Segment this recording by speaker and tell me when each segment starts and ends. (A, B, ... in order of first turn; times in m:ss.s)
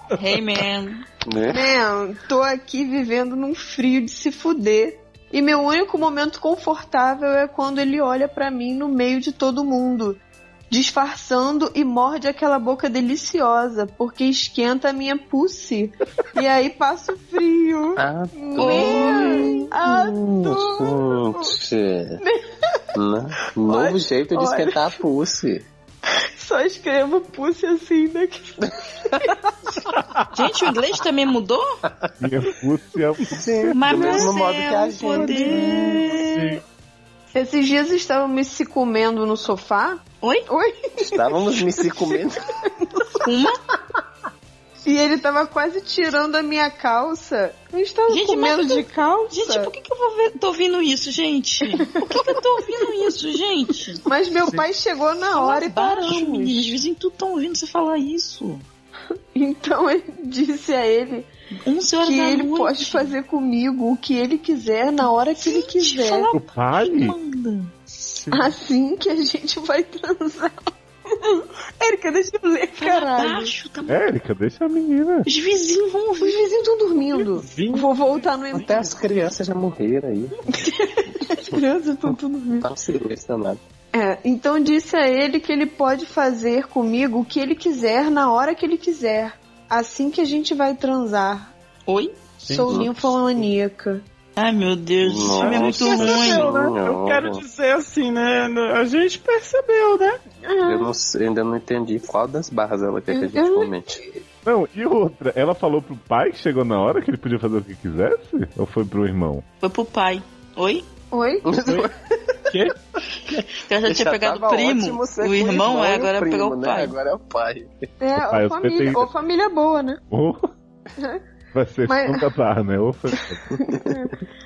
0:00.1-0:01.0 A
0:01.2-0:01.7 B
0:01.5-0:21.6 C
0:18.0-0:22.2 B
0:18.6-0:19.7 A
0:22.9-0:25.6 B
0:23.6-0:25.0 C
0:26.4-0:29.4 C
0:30.3-0:31.6 A
0:32.2-0:34.1 D
0:33.3-0:36.2 B
0:33.7-0:36.2 A
0:35.1-0:36.6 E
0:37.3-0:43.2 C
0:40.2-0:40.5 A
0:41.0-0:42.5 B
0:43.2-0:43.6 A
0:44.8-0:49.7 C
0:48.1-0:54.0 A
0:51.9-0:53.1 C
0:54.0-0:56.8 C
0:55.3-0:58.6 A
0:59.3-1:01.3 C
1:01.6-1:03.1 A
1:02.0-1:06.3 C
1:05.4-1:07.7 A
1:06.3-1:07.2 D
1:08.3-1:10.6 C
1:11.1-1:13.5 C
1:12.8-1:14.0 A
1:13.9-1:15.3 D
1:15.2-1:16.4 A
1:16.2-1:18.9 C
1:17.1-1:18.2 E
1:18.5-1:20.4 B
1:20.6-1:22.7 C
1:22.6-1:23.6 B
1:23.9-1:31.5 C
1:31.9-1:32.2 A
1:32.4-1:32.8 E
1:32.5-1:34.0 C
1:34.4-1:36.5 A
1:35.0-1:37.4 B
1:35.4-1:40.2 E
1:40.4-1:40.9 C
1:40.6-1:44.0 B
1:43.1-1:44.2 C
1:44.4-1:49.4 D
1:49.6-1:50.8 A
1:51.1-1:51.5 C
1:51.4-1:52.6 B
1:52.5-1:52.7 E
1:53.3-1:57.8 B
1:53.6-1:56.9 A
1:58.0-2:00.0 C
1:58.2-1:59.1 D
2:00.1-2:00.5 D
2:01.5-2:03.6 D
2:01.8-2:02.2 C
2:03.6-2:04.1 C